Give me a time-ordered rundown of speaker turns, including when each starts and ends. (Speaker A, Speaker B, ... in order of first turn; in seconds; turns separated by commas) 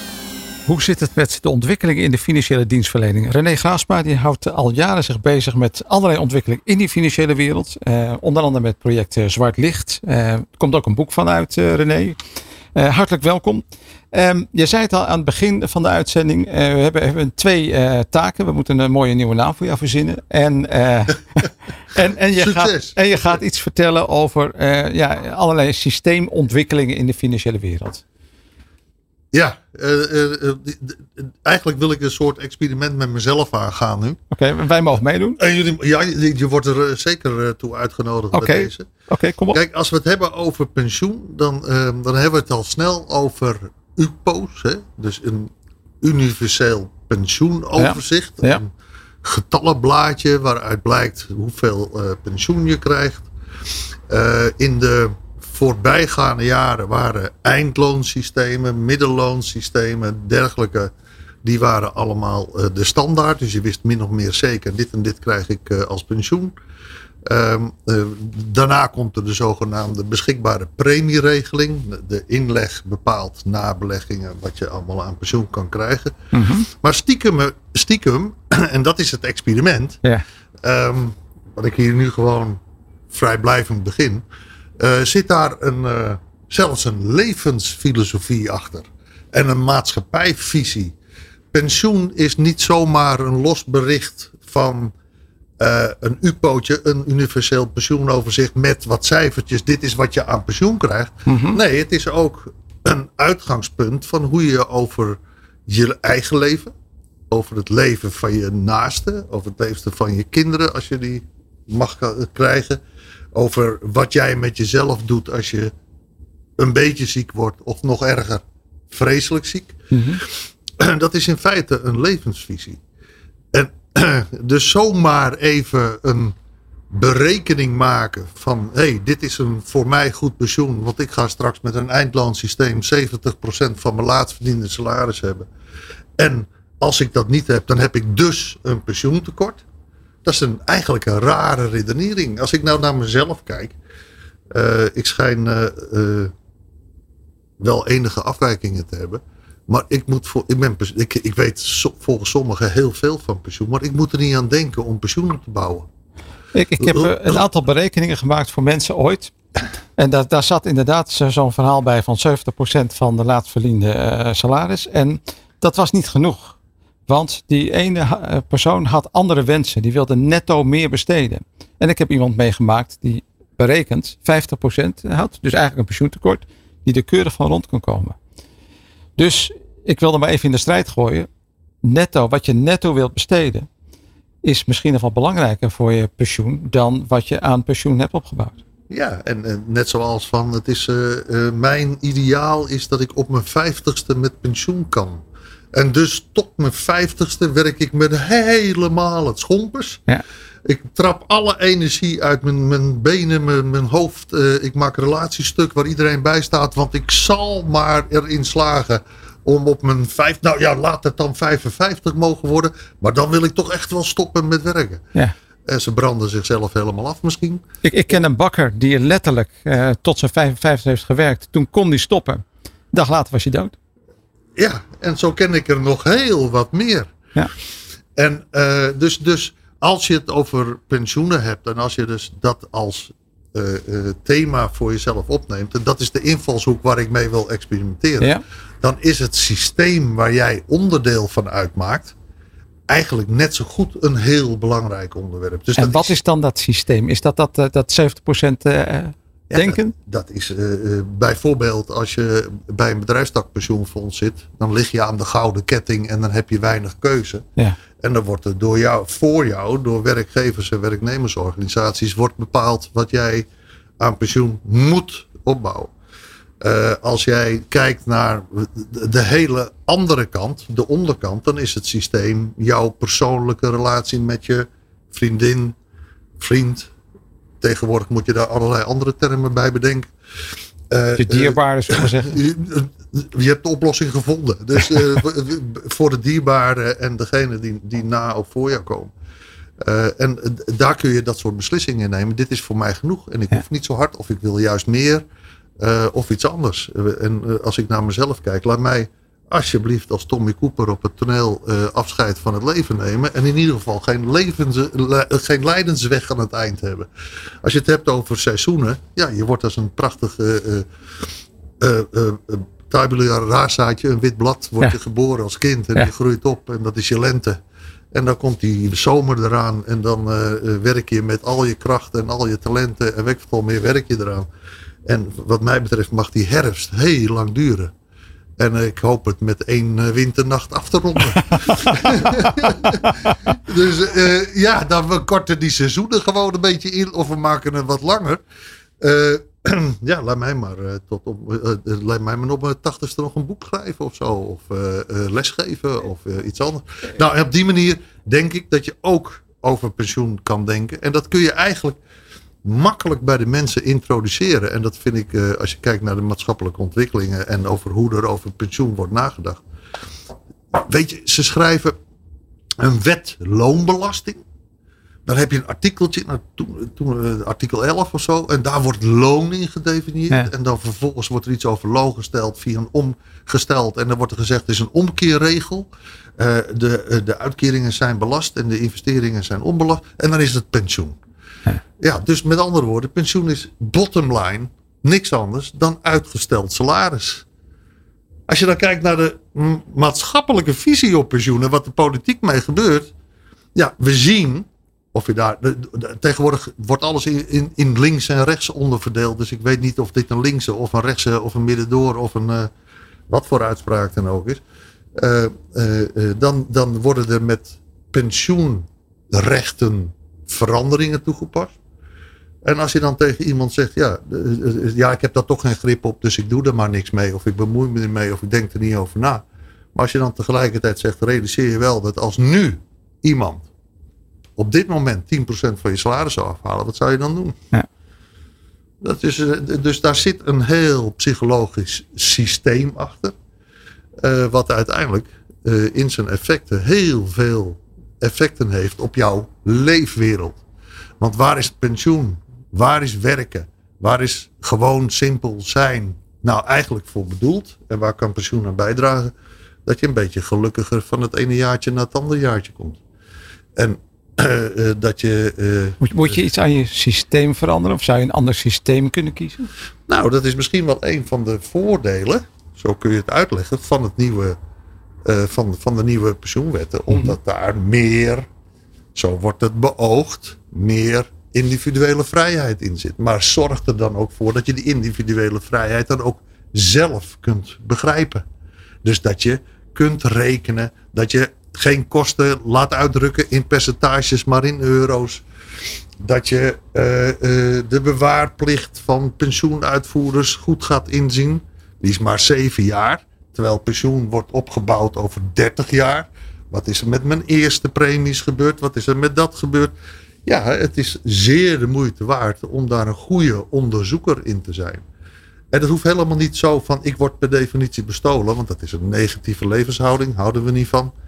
Speaker A: 0.7-12.2, Speaker A: 12.8-21.4, Speaker A: 21.9-28.0, Speaker B: 22.4-23.0, Speaker B: 29.3-34.2, Speaker A: 34.3-35.4, Speaker B: 35.4-38.9, Speaker A: 38.3-39.6, Speaker B: 39.5-45.5, Speaker B: 46.0-48.7, Speaker A: 47.8-48.6, Speaker B: 49.2-53.3, Speaker B: 54.1-60.9, Speaker B: 61.4-66.5, Speaker B: 67.3-80.0, Speaker A: 76.3-76.7, Speaker B: 80.6-82.6, Speaker B: 83.1-84.2, Speaker B: 84.8-90.9, Speaker B: 91.5-94.9, Speaker B: 95.6-106.7, Speaker A: 101.3-101.6, Speaker B: 107.3-112.8, Speaker B: 113.3-115.7, Speaker B: 116.6-122.8, Speaker A: 119.9-120.2, Speaker B: 123.5-126.3, Speaker B: 126.9-135.5, Speaker B: 136.2-139.6, Speaker B: 140.2-143.8, Speaker B: 144.5-146.3, Speaker B: 147.6-155.9, Speaker A: 156.6-159.3, Speaker B: 156.8-157.4, Speaker A: 160.0-166.6, Speaker A: 167.1-178.2, Speaker A: 179.2-181.3, Speaker A: 181.8-183.7, Speaker A: 184.4-188.6, Speaker B: 188.9-195.2, Speaker B: 195.7-200.0, Speaker B: 200.7-215.1, Speaker B: 215.7-217.6, Speaker A: 217.8-223.7, Speaker B: 224.6-227.2, Speaker B: 228.2-242.1, Speaker B: 242.9-246.2, Speaker A: 245.8-249.9, Speaker B: 249.5-257.4, Speaker B: 258.0-263.5, Speaker B: 264.0-265.9, Speaker B: 266.6-275.8, Speaker B: 276.4-276.9, Speaker B: 277.6-280.1, Speaker B: 280.9-289.1, Speaker A: 281.2-282.4, Speaker B: 289.8-295.2, Speaker B: 295.8-307.1, Speaker B: 307.6-310.9, Speaker B: 311.8-317.6, Speaker B: 318.1-324.5, Speaker B: 325.1-327.9, Speaker B: 328.6-338.4, Speaker B: 339.0-352.0, Speaker B: 352.6-359.6, Speaker B: 360.7-361.9, Speaker B: 362.8-364.4, Speaker B: 365.3-375.9, Speaker B: 376.4-381.2, Speaker B: 382.0-387.4, Speaker B: 388.5-393.1, Speaker B: 393.8-402.7, Speaker B: 403.3-404.6, Speaker B: 405.2-411.8, Speaker B: 412.6-419.4, Speaker B: 419.9-423.7, Speaker B: 424.6-427.6, Speaker B: 429.0-433.3, Speaker B: 434.2-440.6, Speaker B: 441.2-449.3, Speaker B: 449.9-453.0, Speaker B: 453.8-456.4, Speaker A: 456.0-459.7, Speaker B: 460.1-464.6, Speaker B: 465.3-468.5, Speaker B: 469.1-478.4, Speaker B: 479.0-485.4, Speaker B: 486.2-499.9, Speaker B: 500.5-505.1, Speaker B: 505.7-511.1